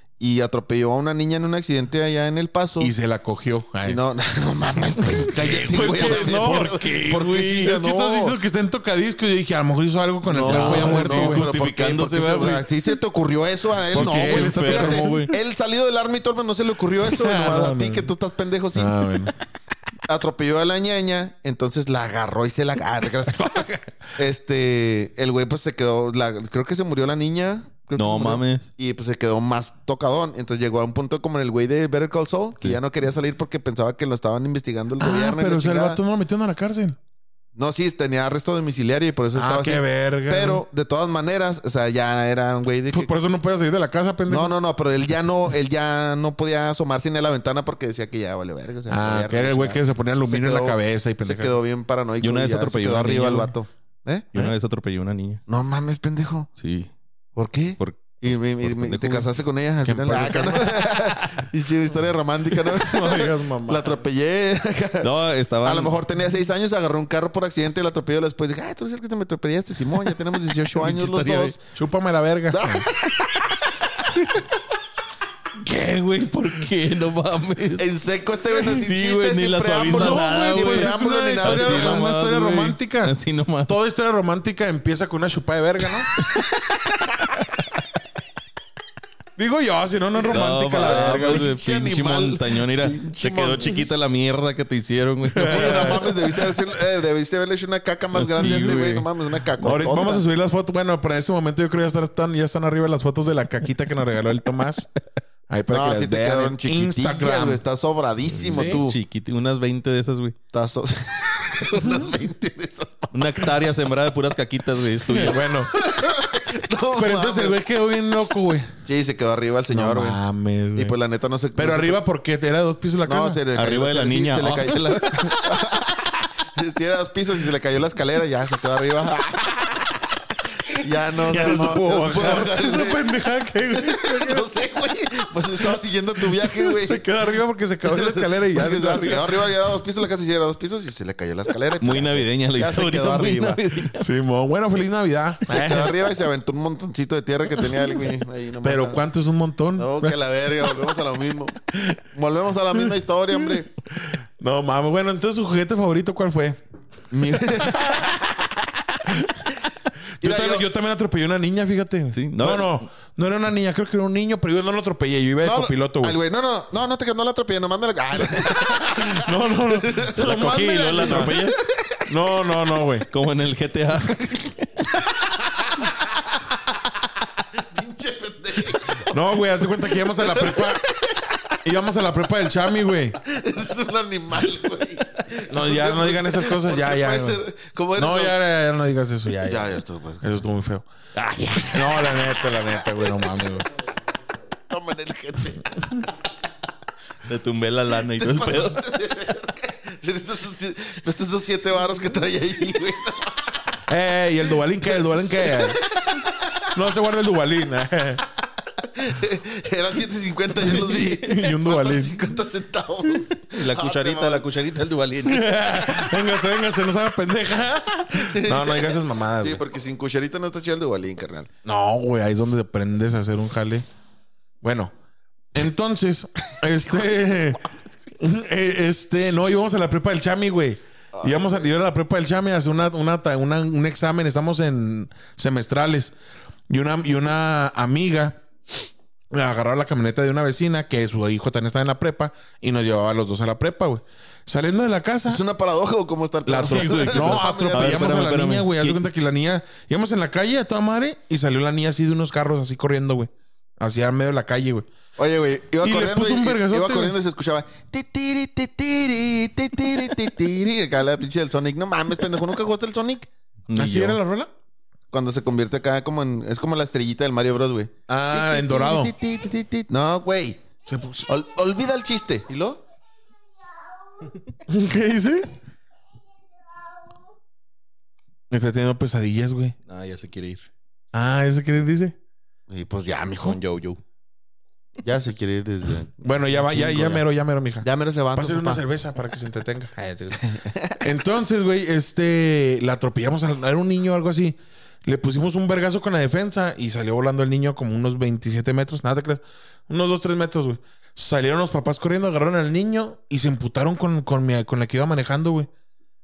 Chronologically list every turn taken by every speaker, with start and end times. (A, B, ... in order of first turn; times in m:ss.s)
0:00.2-0:02.9 A
0:02.8-0:04.0 B
0:03.8-0:08.4 A
0:05.2-0:11.4 B
0:10.2-0:19.1 A
0:10.4-0:12.7 C
0:13.9-0:15.3 B
0:13.9-0:15.3 C
0:17.0-0:18.1 B
0:18.7-0:19.3 B
0:20.1-0:36.0 A
0:23.4-0:23.8 C
0:28.0-0:28.7 C
0:35.0-0:37.0 B
0:37.6-0:43.1 A
0:39.3-0:40.6 B
0:42.9-0:44.5 B
0:44.3-0:54.4 A
0:48.9-0:51.6 B
0:52.2-0:53.5 C
0:54.3-0:55.4 C
0:55.5-0:56.5 A
0:56.6-0:56.9 C
0:57.4-1:05.1 A
0:57.8-0:59.3 C
0:59.8-1:00.9 B
1:02.6-1:04.0 B
1:05.0-1:06.0 C
1:05.6-1:11.6 A
1:10.7-1:11.6 C
1:11.7-1:12.9 B
1:12.5-1:13.9 A
1:15.6-1:17.9 C
1:17.8-1:22.1 A
1:18.5-1:23.7 C
1:19.9-1:23.1 B
1:23.7-1:26.1 B
1:29.4-1:31.5 B
1:30.3-1:33.8 A
1:30.3-1:36.2 C
1:35.3-1:36.2 B
1:35.4-1:40.2 A
1:38.2-1:39.1 C
1:38.4-1:38.8 B
1:39.6-1:44.9 B
1:45.5-1:47.6 B
1:45.7-1:49.0 A
1:48.3-1:50.4 C
1:48.5-1:48.8 B
1:50.5-1:53.5 A
1:53.1-1:55.4 C
1:55.1-1:55.8 B
1:55.7-1:57.6 A
1:56.9-1:58.7 B
1:58.8-2:00.2 A
1:59.7-2:01.0 B
2:00.7-2:02.0 A
2:01.5-2:03.4 B
2:03.0-2:10.1 A
2:03.5-2:05.3 C
2:10.7-2:13.0 A
2:11.2-2:14.5 B
2:13.7-2:17.0 A
2:16.4-2:19.4 B
2:17.9-2:23.6 A
2:21.8-2:24.0 C
2:24.0-2:25.9 B
2:25.5-2:29.0 A
2:28.6-2:30.2 B
2:29.8-2:33.7 A
2:34.0-2:36.6 B
2:37.1-2:38.4 A
2:37.6-2:38.2 B
2:39.0-2:39.5 B
2:40.2-2:40.7 A
2:40.2-2:46.2 B
2:42.1-2:42.9 C
2:45.4-2:52.0 A
2:48.4-2:51.4 B
2:50.1-2:51.6 C
2:52.1-2:53.1 B
2:53.1-2:54.8 C
2:55.0-2:56.2 A
2:57.5-2:59.2 A
2:59.1-3:00.8 B
3:00.0-3:01.6 A
3:01.6-3:03.2 B
3:03.2-3:08.4 A
3:05.5-3:07.4 B
3:08.0-3:10.8 B
3:09.4-3:10.3 A
3:11.1-3:12.3 A
3:11.7-3:13.6 B
3:14.7-3:16.1 A
3:17.3-3:18.8 C
3:18.1-3:23.6 A
3:23.9-3:25.8 B
3:25.5-3:26.7 A
3:26.7-3:28.2 B
3:28.8-3:34.4 A
3:30.9-3:32.2 B
3:33.4-3:35.6 C
3:35.2-3:39.6 B
3:38.1-3:41.5 A
3:41.6-3:43.8 B
3:44.6-3:44.9 B
3:45.5-3:47.6 B
3:48.2-3:56.1 B
3:51.1-3:51.6 A
3:56.7-3:58.4 B
3:59.3-4:05.4 B
4:05.3-4:08.2 A
4:06.4-4:14.9 B
4:06.6-4:09.0 C
4:15.2-4:23.3 A
4:15.8-4:17.2 B
4:23.7-4:24.2 C
4:23.7-4:24.5 B
4:25.1-4:30.7 A
4:28.1-4:29.1 B
4:30.9-4:31.2 B
4:31.3-4:32.8 A
4:34.7-4:35.4 B
4:38.5-4:39.8 B
4:39.9-4:40.7 C
4:41.1-4:42.1 B
4:42.7-4:43.6 A
4:43.4-4:44.0 C
4:45.0-4:47.2 A
4:46.2-4:50.4 B
4:47.8-4:48.8 A
4:50.3-4:51.0 A
4:51.0-5:05.7 B